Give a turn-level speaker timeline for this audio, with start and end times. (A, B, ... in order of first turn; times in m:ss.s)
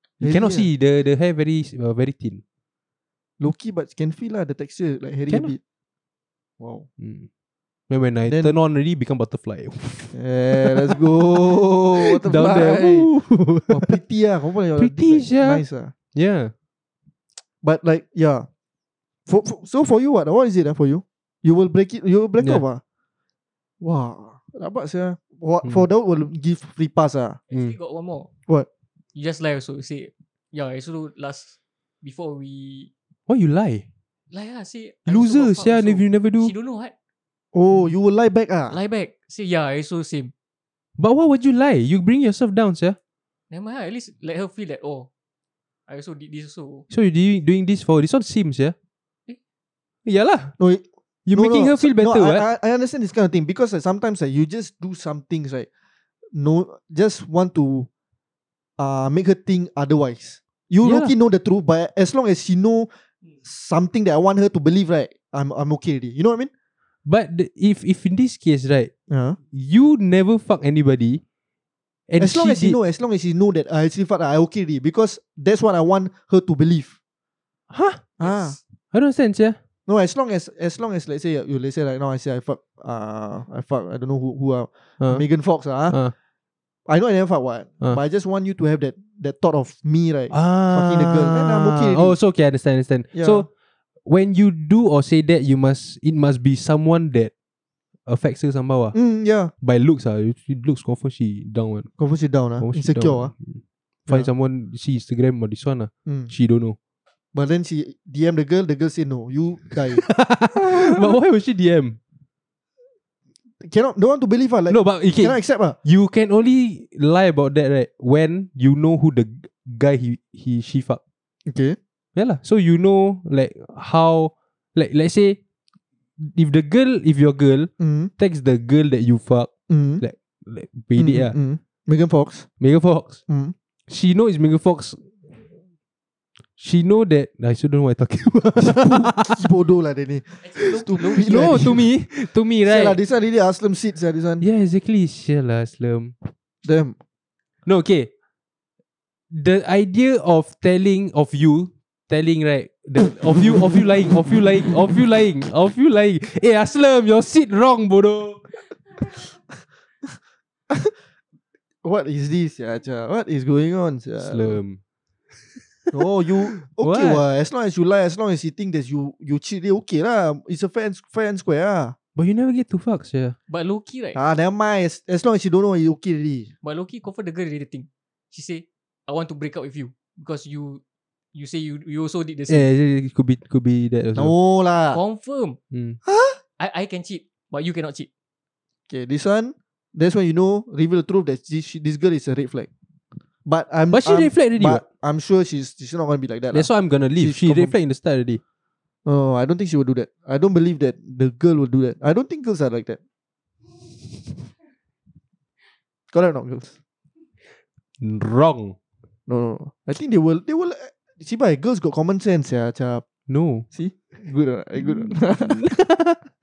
0:00.2-0:02.4 A
0:00.2-0:00.7 B
0:03.4-0:05.6 B
0:05.3-0:05.5 A
0:06.6-0:06.9 B
0:07.0-0:07.3 A
0:07.9-0:11.0 A
0:08.2-0:08.5 B
0:10.1-0:13.1 B
0:12.0-0:13.9 A
0:13.7-0:15.9 B
0:14.8-0:15.6 A
0:16.1-0:16.5 A
0:17.6-0:18.5 B
0:19.3-0:22.8 B
0:23.8-0:27.4 B
0:27.5-0:28.3 C
0:27.5-0:27.8 A
0:29.1-0:32.9 C
0:33.3-0:33.8 A
0:34.3-0:36.9 C
0:35.0-0:36.5 A
0:37.5-0:38.8 B
0:38.7-0:40.3 C
0:41.0-0:43.0 A
0:43.5-0:45.1 C
0:45.9-0:46.8 C
0:46.9-0:48.7 A
0:50.0-0:50.5 A
0:50.6-0:55.7 B
0:51.2-0:52.4 A
0:56.3-0:57.9 B
0:58.8-1:02.9 B
1:00.8-1:01.1 A
1:03.4-1:06.5 B
1:07.0-1:08.9 A
1:09.1-1:09.4 B
1:09.5-1:11.2 A
1:12.1-1:12.8 A
1:12.2-1:17.0 B
1:17.7-1:18.0 A
1:18.2-1:18.6 B
1:18.2-1:18.5 C
1:18.9-1:19.6 A
1:19.9-1:26.0 B
1:26.9-1:32.2 B
1:30.3-1:33.5 A
1:33.1-1:33.4 B
1:34.0-1:37.3 A
1:38.1-1:39.0 A
1:38.9-1:39.5 B
1:39.6-1:41.9 A
1:42.0-1:43.3 B
1:42.6-1:46.8 A
1:47.3-1:50.0 B
1:49.9-1:52.0 A
1:50.7-1:51.0 B
1:53.6-1:55.8 B
1:54.7-2:01.0 A
2:01.5-2:01.8 B
2:02.1-2:05.4 A
2:06.2-2:11.4 A
2:07.8-2:08.1 B
2:09.7-2:10.0 B
2:11.0-2:12.5 B
2:12.6-2:13.2 A
2:13.3-2:13.5 B
2:13.9-2:15.1 A
2:16.6-2:19.4 A
2:18.6-2:21.9 B
2:20.4-2:21.8 C
2:21.2-2:23.0 A
2:22.6-2:24.4 B
2:24.4-2:26.1 A
2:26.6-2:27.0 B
2:27.6-2:28.1 A
2:29.3-2:38.4 A
2:41.8-2:44.6 B
2:44.2-2:44.8 A
2:45.6-2:45.9 A
2:45.9-2:51.9 B
2:46.6-2:47.2 A
2:52.2-2:53.4 A
2:53.5-2:54.2 C
2:54.1-2:56.5 B
2:56.6-3:00.8 C
3:01.3-3:02.6 C
3:02.5-3:04.3 A
3:04.1-3:05.0 B
3:04.9-3:05.6 C
3:05.7-3:06.0 A
3:06.0-3:06.4 B
3:06.6-3:08.1 C
3:08.9-3:12.7 B
3:13.4-3:17.7 B
3:13.9-3:14.8 A
3:16.5-3:18.4 A
3:19.0-3:23.0 B
3:26.1-3:26.7 B
3:28.0-3:28.8 A
3:29.3-3:33.0 B
3:33.3-3:33.6 A
3:33.7-3:35.6 B
3:34.8-3:36.2 A